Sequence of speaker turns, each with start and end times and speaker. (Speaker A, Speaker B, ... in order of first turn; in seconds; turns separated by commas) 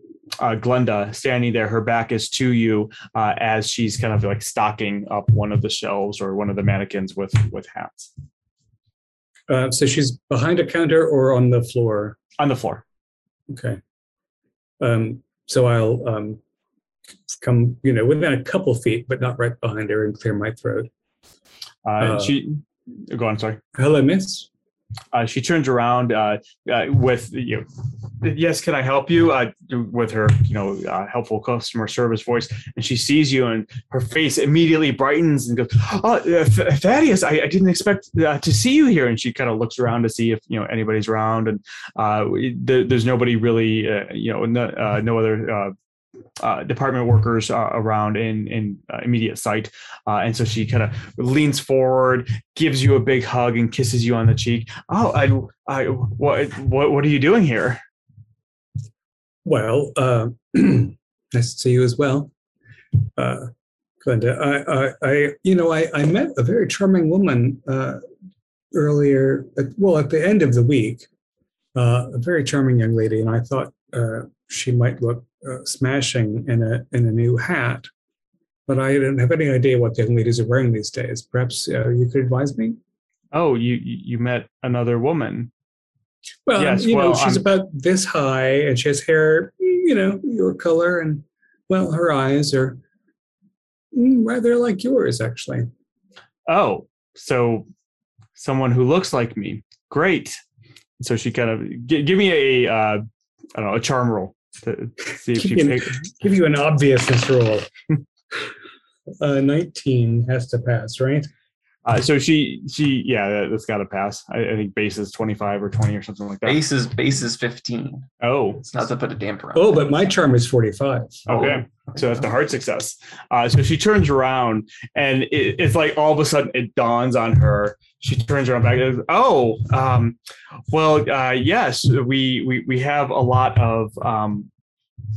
Speaker A: 0.4-8.1, Speaker B: 9.5-12.2, Speaker A: 12.4-12.8, Speaker B: 13.5-13.8, Speaker B: 14.8-16.4, Speaker B: 17.4-20.9, Speaker A: 21.9-23.6, Speaker B: 22.0-22.4, Speaker B: 23.8-24.5, Speaker A: 25.1-27.7, Speaker A: 28.2-45.8, Speaker A: 46.4-57.8, Speaker B: 59.5-62.3, Speaker B: 63.2-63.5, Speaker B: 64.0-68.0, Speaker B: 68.7-71.1, Speaker B: 71.8-77.9, Speaker B: 78.7-82.8, Speaker A: 83.3-85.5, Speaker B: 86.5-92.8, Speaker A: 86.6-87.5, Speaker B: 93.9-95.7, Speaker A: 96.5-97.7, Speaker A: 98.4-100.4, Speaker A: 101.0-106.1, Speaker B: 105.3-107.7, Speaker B: 109.2-111.3, Speaker A: 111.8-116.6, Speaker C: 116.5-118.1, Speaker A: 118.2-118.7, Speaker C: 118.6-120.1, Speaker B: 119.5-121.2, Speaker A: 121.3-130.2, Speaker C: 121.3-122.0, Speaker A: 130.7-134.5